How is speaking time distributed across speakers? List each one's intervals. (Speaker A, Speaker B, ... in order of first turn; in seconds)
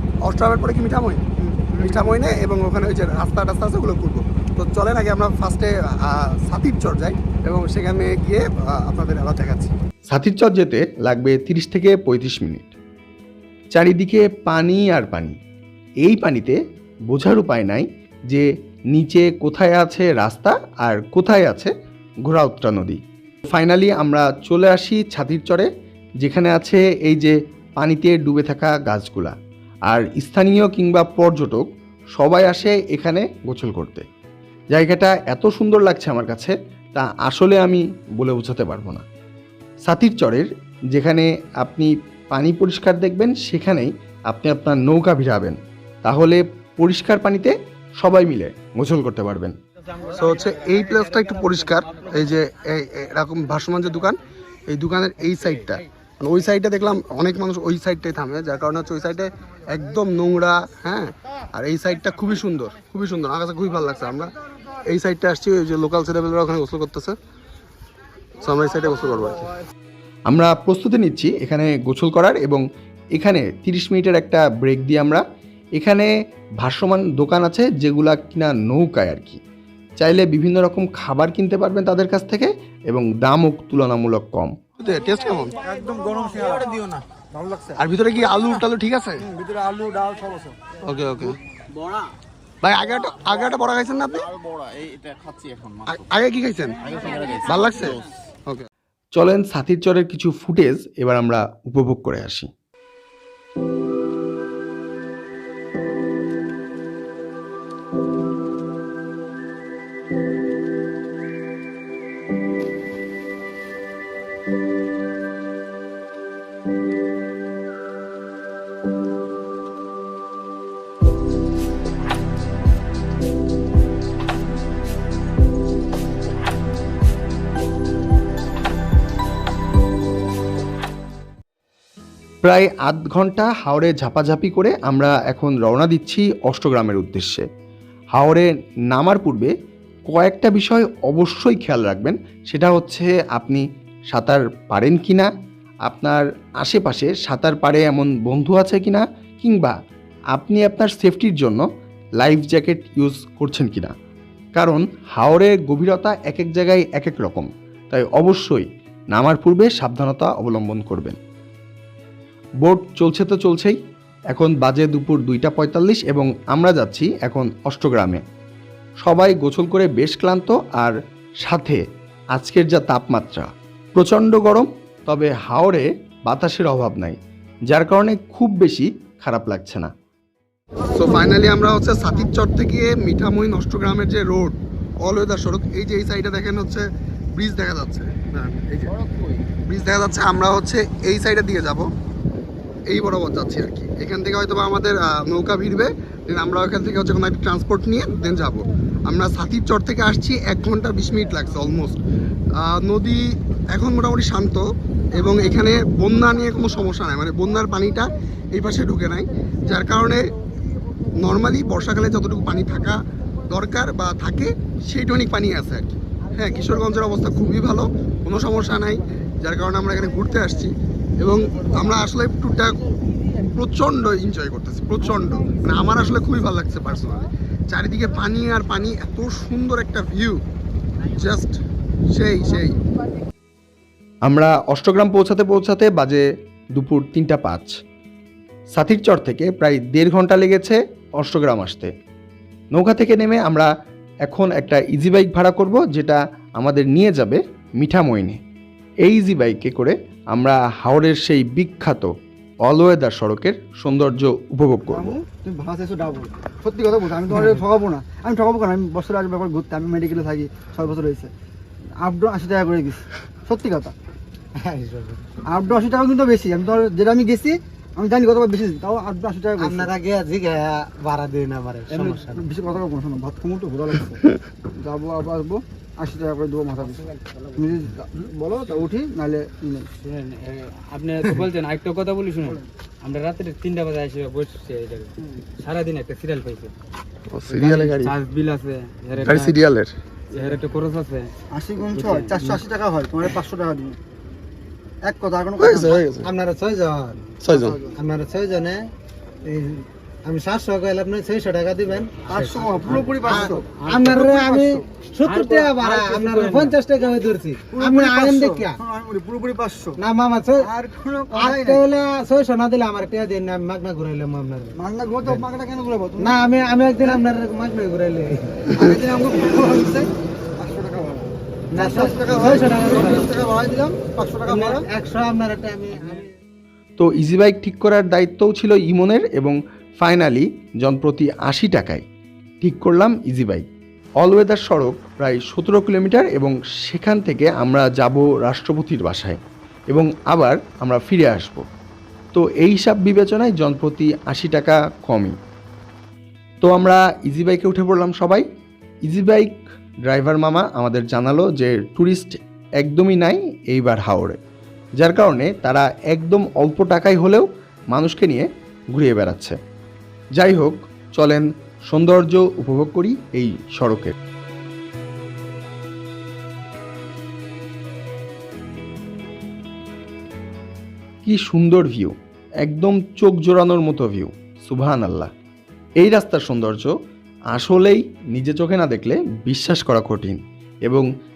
Speaker A: 0.3-9.7, 50.0-64.3, 64.8-67.2, 68.4-69.5, 84.8-85.6, 87.8-89.3, 90.8-91.4, 92.6-94.3, 95.8-98.7, 180.9-186.8, 187.4-189.0, 189.7-191.9, 192.9-202.0, 202.6-210.3, 211.2-222.9, 223.4-230.4, 231.1-231.6, 232.1-232.8, 287.3-288.1, 289.2-290.0, 295.6-296.3, 297.4-297.8
Speaker B: 10.1-12.8, 13.7-15.4, 16.0-21.7, 22.2-25.7, 26.2-29.4, 29.9-34.0, 34.7-39.1, 39.9-49.5, 70.3-72.6, 73.2-75.2, 75.8-79.4, 80.0-84.6, 99.2-102.5, 132.4-137.5, 138.2-139.5, 140.1-145.3, 145.9-149.8, 150.3-151.7, 152.2-153.9, 154.6-161.2, 162.6-163.8, 164.3-168.2, 169.0-171.8, 172.3-177.2, 177.7-179.9, 234.3-237.8, 238.7-241.9, 242.7-243.7, 244.3-248.4, 249.1-252.1, 252.7-255.2, 327.0-332.0, 332.6-333.7, 334.2-339.4, 339.9-341.7, 342.3-345.4, 346.6-348.5, 349.1-354.4, 355.0-359.6, 360.4-364.1, 371.2-375.3, 376.0-376.9, 377.5-381.1
Speaker C: 85.6-87.8, 89.2-90.7, 254.9-261.3, 262.0-263.9, 265.4-269.9, 271.9-274.2, 274.8-279.9, 291.5-294.0, 295.0-296.1, 297.5-298.0, 302.2-306.7, 307.7-310.0, 310.6-311.8, 314.8-316.4, 317.0-317.3, 318.7-325.0
Speaker D: 264.6-265.3, 269.6-272.4, 296.2-297.2, 297.9-298.9, 299.4-308.8, 310.0-310.7, 311.3-314.8, 316.2-318.8, 321.7-323.1, 324.5-326.3
Speaker E: 280.0-286.7, 287.5-289.6, 290.3-292.6, 306.5-306.7